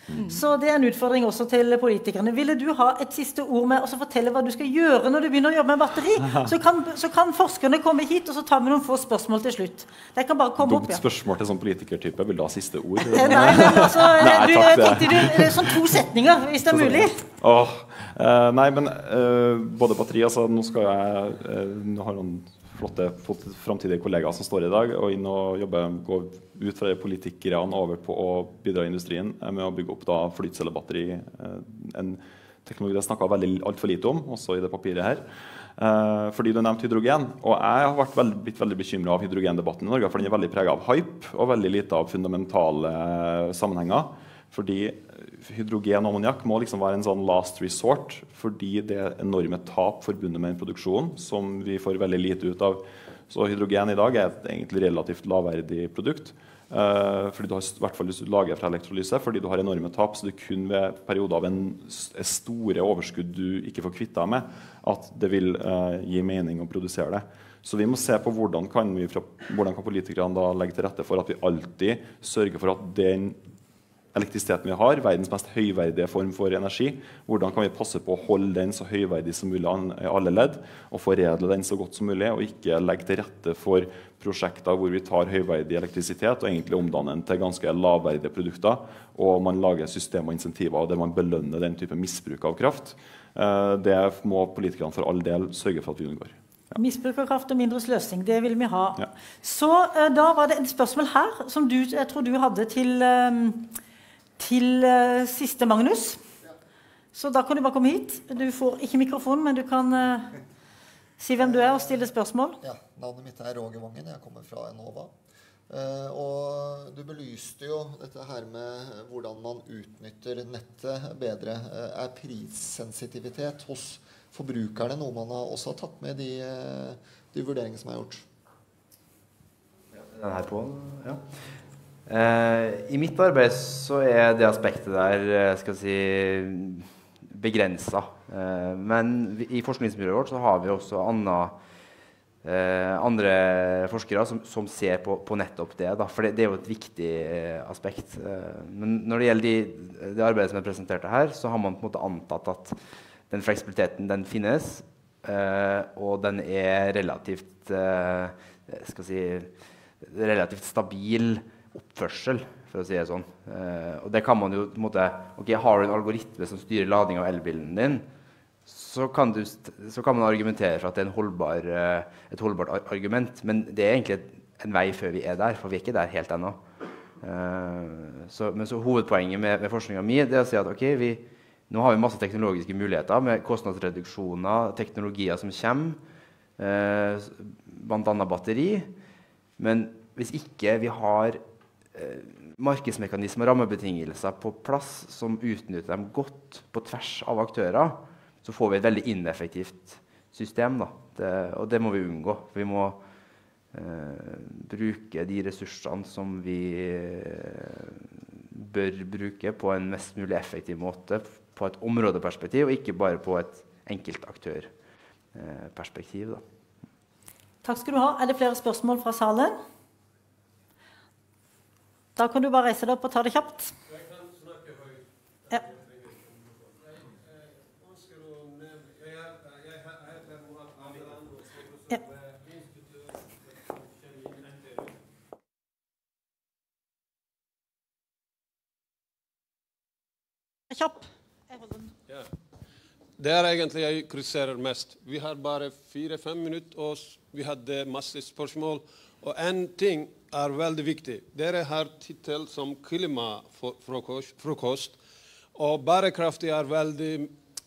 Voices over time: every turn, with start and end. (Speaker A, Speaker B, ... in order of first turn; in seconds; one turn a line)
Speaker A: 0.2-11.0
Speaker B: 10.6-15.9
Speaker A: 13.1-17.2
Speaker B: 16.7-35.2
Speaker B: 35.8-73.4
Speaker B: 74.1-96.8
Speaker A: 96.8-103.7
Speaker A: 104.4-106.2
Speaker A: 107.1-110.3
Speaker A: 111.2-112.6
Speaker C: 111.4-112.1
Speaker C: 112.6-115.1
Speaker C: 115.7-128.2
Speaker D: 129.9-131.2
Speaker D: 132.1-141.6
Speaker D: 142.4-152.8
Speaker D: 153.3-168.0
Speaker D: 168.7-176.6
Speaker D: 177.2-186.0
Speaker D: 186.6-188.9
Speaker D: 189.6-191.4
Speaker D: 191.9-203.0
Speaker D: 203.7-214.7
Speaker D: 215.3-216.4
Speaker A: 217.6-219.6
Speaker A: 222.2-223.7
Speaker E: 223.9-225.0
Speaker E: 225.6-227.0
Speaker E: 227.8-232.8
Speaker E: 234.0-234.5
Speaker A: 240.7-241.9
Speaker E: 243.2-255.0
Speaker E: 255.5-257.3